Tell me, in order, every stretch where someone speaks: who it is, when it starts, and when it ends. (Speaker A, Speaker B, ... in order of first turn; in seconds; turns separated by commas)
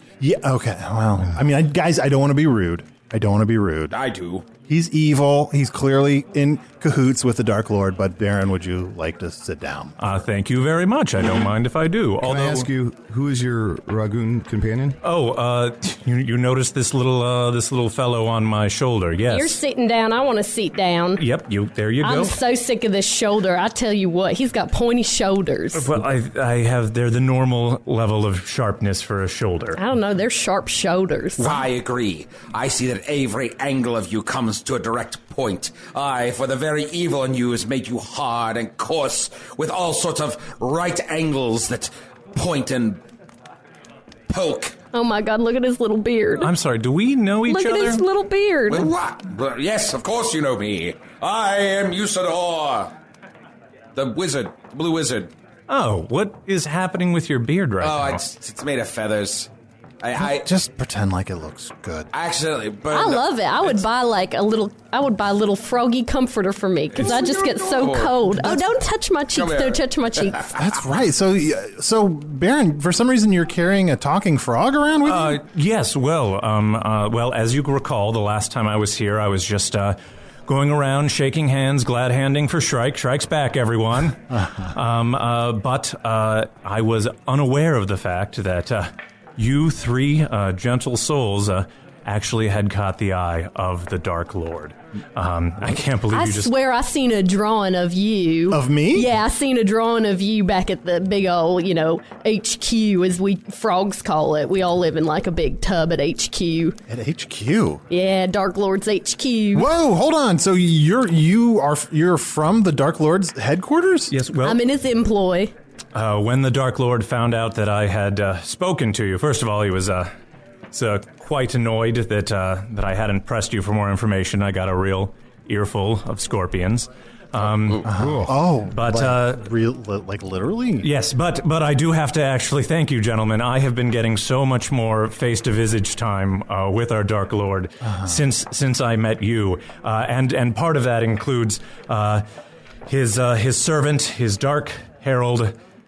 Speaker A: 0.2-3.9, Speaker B: 3.9-4.5, Speaker A: 4.6-9.9, Speaker C: 10.0-12.7, Speaker D: 12.2-15.0, Speaker C: 15.0-19.6, Speaker E: 19.3-21.2, Speaker C: 21.2-22.4, Speaker E: 22.0-26.0, Speaker C: 25.7-29.8, Speaker E: 29.8-31.6, Speaker B: 31.4-43.0, Speaker B: 44.3-44.7, Speaker E: 44.9-46.5, Speaker C: 46.4-48.0, Speaker E: 47.5-48.9, Speaker B: 48.7-52.9, Speaker B: 53.9-55.3, Speaker C: 55.7-58.2, Speaker B: 57.8-59.5, Speaker B: 60.0-60.5, Speaker A: 60.2-62.1, Speaker B: 62.1-63.8, Speaker E: 62.9-70.5, Speaker B: 66.9-68.5, Speaker B: 69.3-70.5, Speaker A: 70.6-75.4, Speaker C: 75.0-96.5, Speaker E: 96.1-106.8, Speaker A: 98.5-99.1, Speaker A: 106.9-107.8, Speaker E: 107.9-109.7, Speaker A: 109.5-114.1, Speaker C: 114.1-114.6, Speaker E: 114.4-115.5, Speaker C: 115.9-120.1, Speaker C: 120.7-127.9, Speaker A: 127.8-130.9, Speaker D: 127.9-128.3, Speaker C: 128.7-129.4, Speaker C: 130.8-142.2, Speaker A: 137.8-138.2, Speaker C: 142.9-145.5